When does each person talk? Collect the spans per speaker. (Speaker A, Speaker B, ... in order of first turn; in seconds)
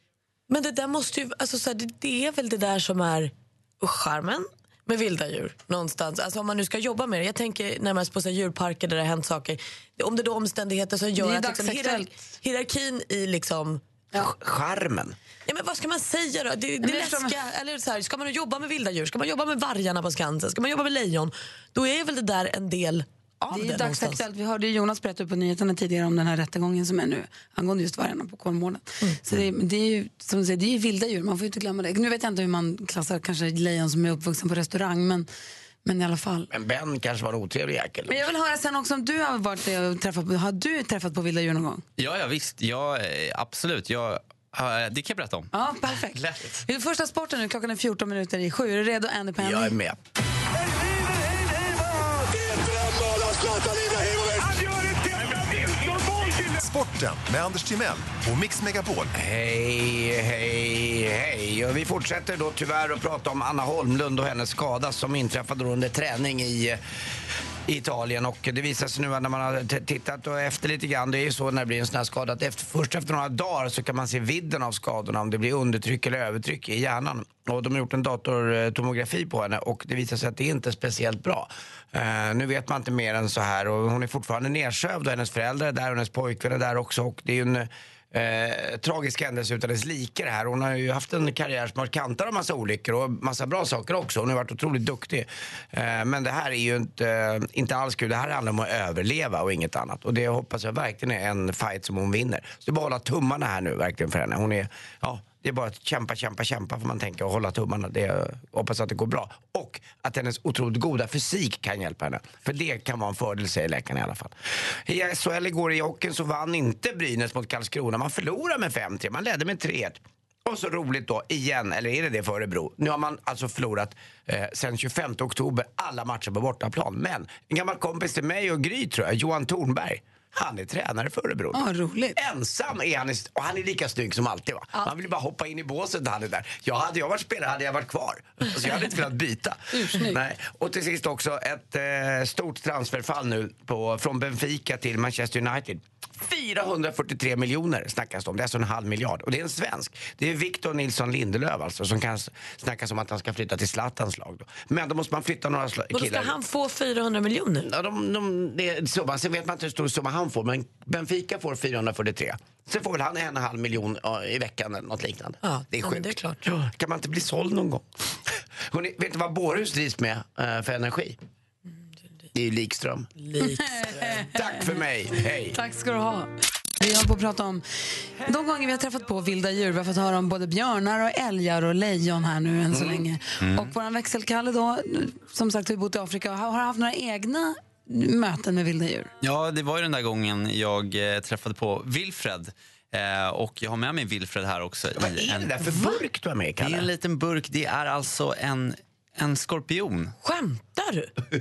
Speaker A: 0.5-13.8, 15.4-24.2, 155.9-157.7, 165.4-166.4, 173.2-173.8, 200.2-201.1
Speaker B: 11.2-12.1, 16.8-17.4, 23.5-35.3, 35.8-36.5, 38.1-41.8, 45.5-49.7, 131.5-132.2, 139.7-140.2, 173.4-174.7, 175.5-176.3, 176.8-177.6, 178.2-189.1
Speaker C: 14.1-15.2, 36.5-38.2, 49.4-50.0, 59.1-66.8, 67.7-114.3, 114.8-131.6, 132.2-156.3, 157.6-167.8, 168.7-171.2, 172.3-173.1, 174.1-175.6, 182.7-183.0, 194.9-196.9
Speaker D: 42.0-45.5, 183.4-183.7, 189.2-195.8, 196.6-200.1
Speaker E: 52.4-59.1